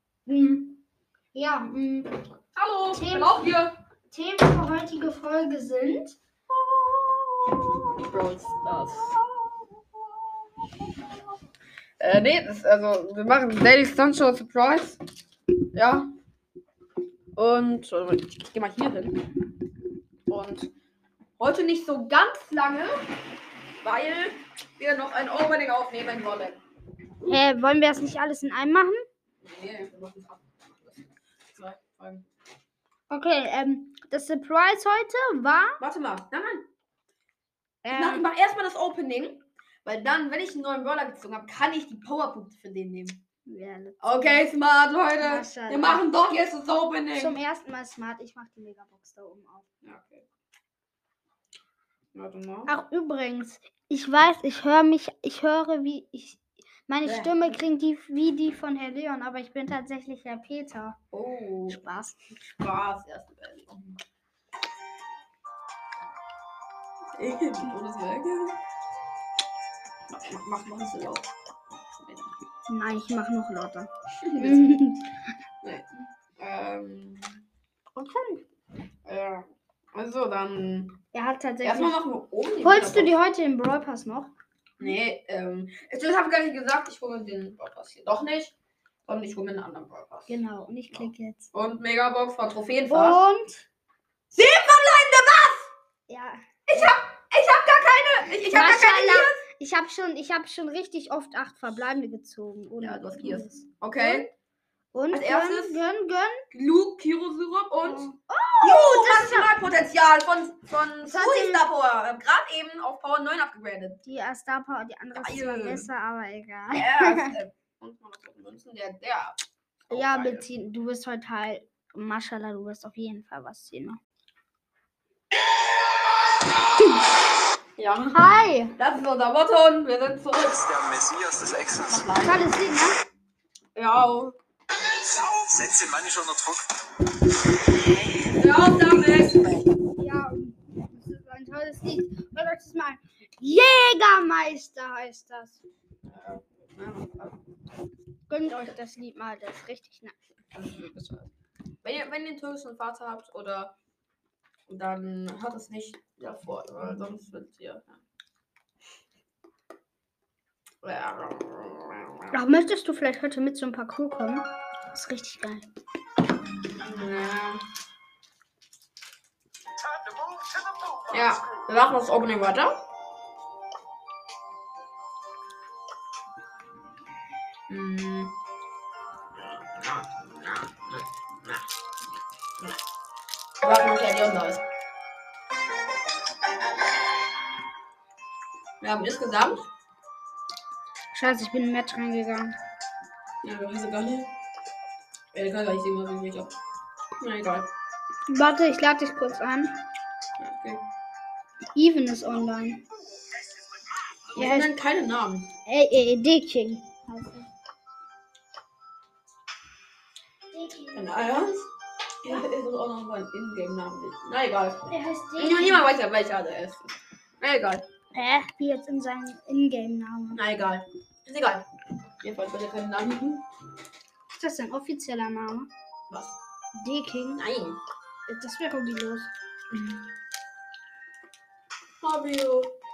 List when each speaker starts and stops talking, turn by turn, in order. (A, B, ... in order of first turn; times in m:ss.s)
0:00.3-0:00.8 A
0:01.3-0:02.3 A
0:02.5-0:03.8 B
0:02.9-0:03.5 A
0:04.1-0:06.2 A
0:06.5-0:09.2 B
0:12.0-0:15.0 B
0:15.7-0:16.1 B
0:17.4-0:19.3 B
0:20.3-0:20.7 B
0:21.4-0:23.1 B
0:23.8-0:26.6 B
0:27.3-0:29.0 A
0:29.4-0:32.3 B
0:33.1-0:35.8 A
0:35.8-0:36.7 B
0:37.8-0:38.2 A
0:37.9-0:43.2 B
0:43.5-0:44.4 A
0:44.0-0:47.4 B
0:45.2-0:46.0 A
0:47.1-0:49.7 A
0:49.8-0:50.2 B
0:52.1-0:52.7 B
0:52.7-1:01.0 A
0:57.0-0:57.6 B
1:01.1-1:01.8 B
1:01.7-1:02.2 A
1:02.5-1:04.0 B
1:07.2-1:08.6 B
1:10.1-1:12.4 B
1:12.7-1:15.1 A
1:14.2-1:14.8 B
1:15.6-1:17.4 B
1:18.0-1:18.4 A
1:19.0-1:21.0 B
1:21.1-1:22.0 A
1:21.6-1:23.1 B
1:22.6-1:24.3 A
1:24.8-1:28.6 B
1:29.1-1:30.4 B
1:30.3-1:31.5 A
1:30.9-1:33.2 B
1:32.9-1:33.7 A
1:34.3-1:35.7 B
1:36.1-1:36.9 A
1:36.7-1:39.4 B
1:38.5-1:44.3 A
1:42.8-1:44.3 B
1:44.9-1:46.4 A
1:45.1-1:45.8 B
1:46.5-1:48.1 B
1:47.8-1:49.5 A
1:48.6-1:54.0 B
1:51.0-1:51.6 A
1:54.0-1:57.4 A
1:55.1-1:55.9 B
1:56.7-2:00.5 B
1:59.9-2:04.0 A
2:07.8-2:10.7 B
2:08.1-2:08.7 A
2:10.5-2:12.1 C
2:11.9-2:12.6 B
2:12.2-2:13.0 A
2:13.8-2:14.4 B
2:15.0-2:16.7 C
2:18.3-2:19.7 B
2:20.0-2:25.6 A
2:26.0-2:27.4 B
2:28.3-2:30.2 A
2:30.5-2:31.3 B
2:31.8-2:33.7 B
2:34.7-2:38.0 B
2:40.8-2:42.4 B
2:42.3-2:45.7 A
2:46.8-2:47.6 B
2:50.1-2:51.0 C
2:51.1-2:52.8 B
2:57.7-2:58.4 B
2:59.4-3:01.6 B
3:03.6-3:04.6 B
3:08.8-3:09.7 B
3:11.1-3:12.6 A
3:13.4-3:14.3 B
3:15.3-3:16.5 B
3:17.2-3:17.7 B
3:18.3-3:19.8 A
3:20.4-3:20.8 B
3:21.8-3:22.8 A
3:24.3-3:25.5 B
3:24.4-3:24.7 A
3:25.7-3:27.5 A
3:30.5-3:31.3 A
3:30.9-3:31.7 B
3:32.2-3:37.8 B
3:34.9-3:35.9 A
3:38.1-3:40.4 A
3:40.3-3:41.7 B
3:42.2-3:43.4 B
3:44.3-3:45.7 A
3:46.1-3:46.4 B
3:46.8-3:47.4 A
3:47.4-3:47.8 B
3:48.3-3:49.3 A
3:49.7-3:50.0 B
3:52.0-3:52.7 B